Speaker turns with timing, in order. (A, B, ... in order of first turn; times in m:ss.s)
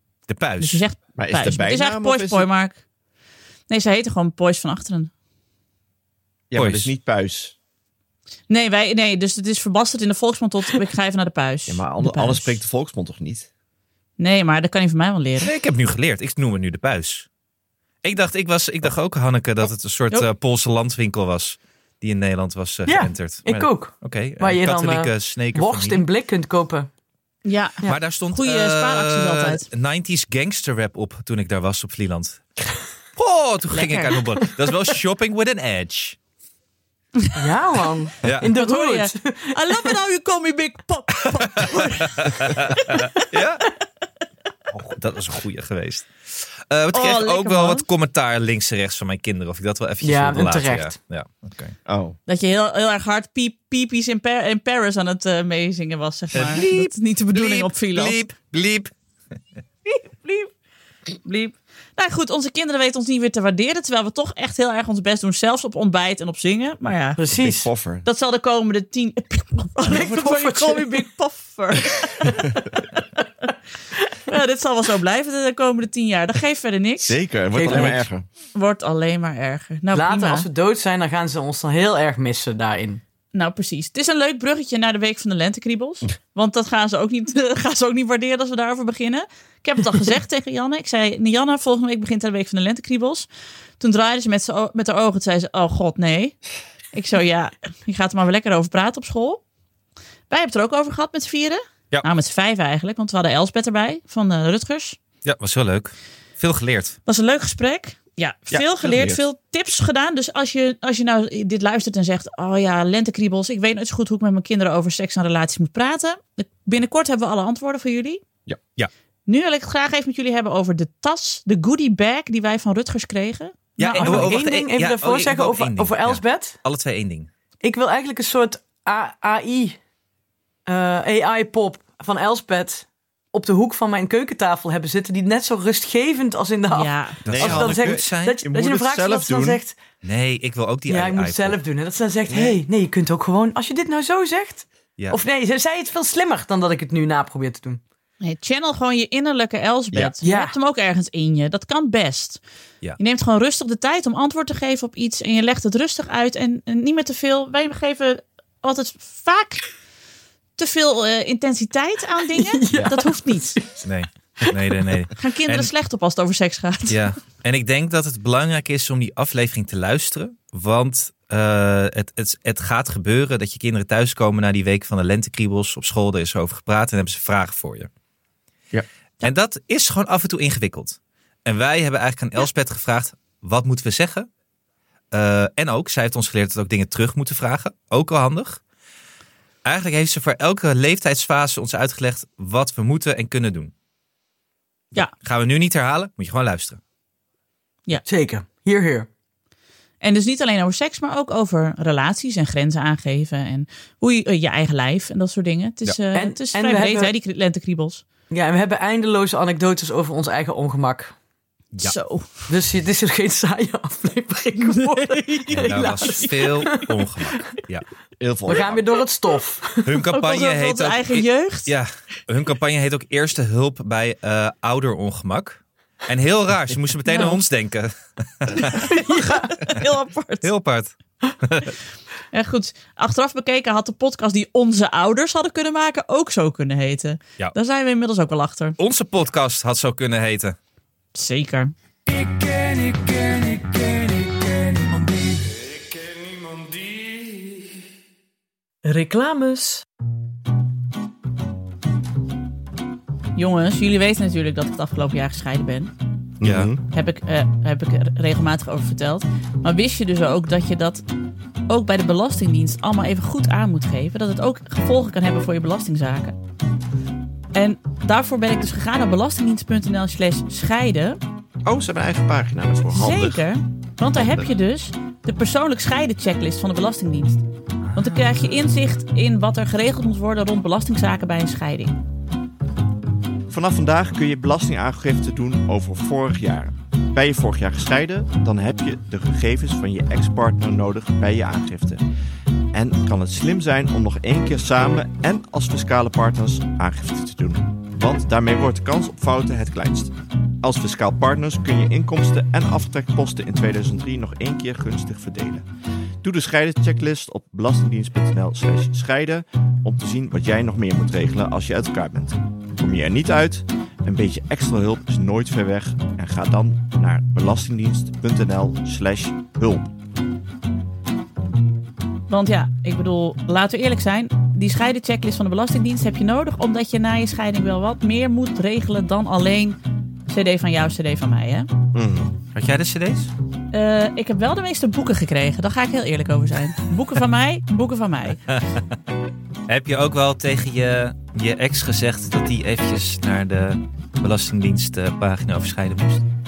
0:00.3-0:00.8 A
0:00.6-0:02.8 B
0:01.2-0:02.5 C
0:03.7-0:05.1 B
0:06.5-0:07.6 C
0:06.6-0:06.9 A
0:08.5-0:12.6 B
0:11.7-0:13.5 C
0:14.2-0:15.5 B
0:15.4-0:17.3 A
0:18.0-0:26.0 A
0:22.9-0:26.9 D
0:27.4-0:29.7 B
0:27.9-0:32.4 A
0:33.2-0:36.2 A
0:33.7-0:34.2 B
0:37.4-0:39.5 D
0:38.2-0:38.5 A
0:38.4-0:43.3 B
0:41.6-0:43.7 A
0:44.8-0:51.8 A
0:46.9-0:47.8 B
0:50.0-0:50.9 D
0:51.9-0:52.2 C
0:52.3-0:58.3 B
0:56.3-0:58.9 A
0:59.9-1:00.5 B
1:01.2-1:07.2 B
1:07.2-1:07.7 D
1:07.3-1:08.1 C
1:08.0-1:12.8 B
1:09.9-1:11.0 D
1:14.3-1:18.0 B
1:17.0-1:18.2 C
1:17.5-1:18.0 D
1:18.6-1:20.5 B
1:19.9-1:23.0 D
1:23.3-1:33.3 B
1:33.8-1:36.4 B
1:36.9-1:39.4 B
1:40.3-1:45.0 B
1:45.2-1:47.0 A
1:47.1-1:58.2 B
1:48.5-1:49.2 C
1:59.3-2:04.4 B
2:03.8-2:07.3 A
2:03.9-2:06.6 D
2:07.6-2:09.8 D
2:10.7-2:19.8 D
2:16.7-2:17.2 B
2:17.2-2:18.4 A
2:17.3-2:19.6 C
2:20.0-2:21.6 A
2:20.9-2:27.8 D
2:22.3-2:22.6 C
2:28.2-2:32.4 B
2:30.2-2:30.6 D
2:33.0-2:39.6 B
2:40.6-2:43.6 B
2:42.3-2:43.8 D
2:43.8-2:45.7 A
2:45.2-2:47.1 B
2:46.9-2:57.9 A
2:59.2-3:04.3 A
3:05.1-3:08.6 A
3:09.6-3:13.7 A
3:15.0-3:16.8 A
3:18.0-3:19.1 D
3:20.0-3:28.0 B
3:26.1-3:27.1 D
3:28.3-3:31.2 D
3:31.8-3:32.5 B
3:32.5-3:37.4 D
3:34.6-3:36.5 B
3:35.5-3:37.8 A
3:38.2-3:38.9 C
3:38.5-3:40.0 D
3:39.8-3:49.0 A
3:40.1-3:41.8 B
3:47.1-3:47.4 B
3:48.7-3:49.6 D
3:49.1-3:50.5 B
3:50.4-3:51.8 A
3:52.3-3:58.8 B
3:58.8-4:00.6 A
4:01.2-4:01.7 B
4:03.0-4:03.8 D
4:08.8-4:09.8 D
4:13.4-4:15.9 B
4:16.4-4:16.8 C
4:16.4-4:16.7 A
4:16.9-4:21.0 B
4:21.7-4:26.4 B
4:27.5-4:31.2 B
4:31.6-4:33.4 C
4:32.9-4:37.4 B
4:34.1-4:34.5 C
4:37.9-4:42.0 B
4:43.5-4:52.0 C
4:52.7-5:05.6 C
5:06.2-5:19.9 C
5:22.3-5:31.7 B
5:31.9-5:32.4 C
5:32.6-5:33.3 A
5:33.7-5:38.4 B
5:38.5-5:38.8 A
5:39.7-5:46.2 A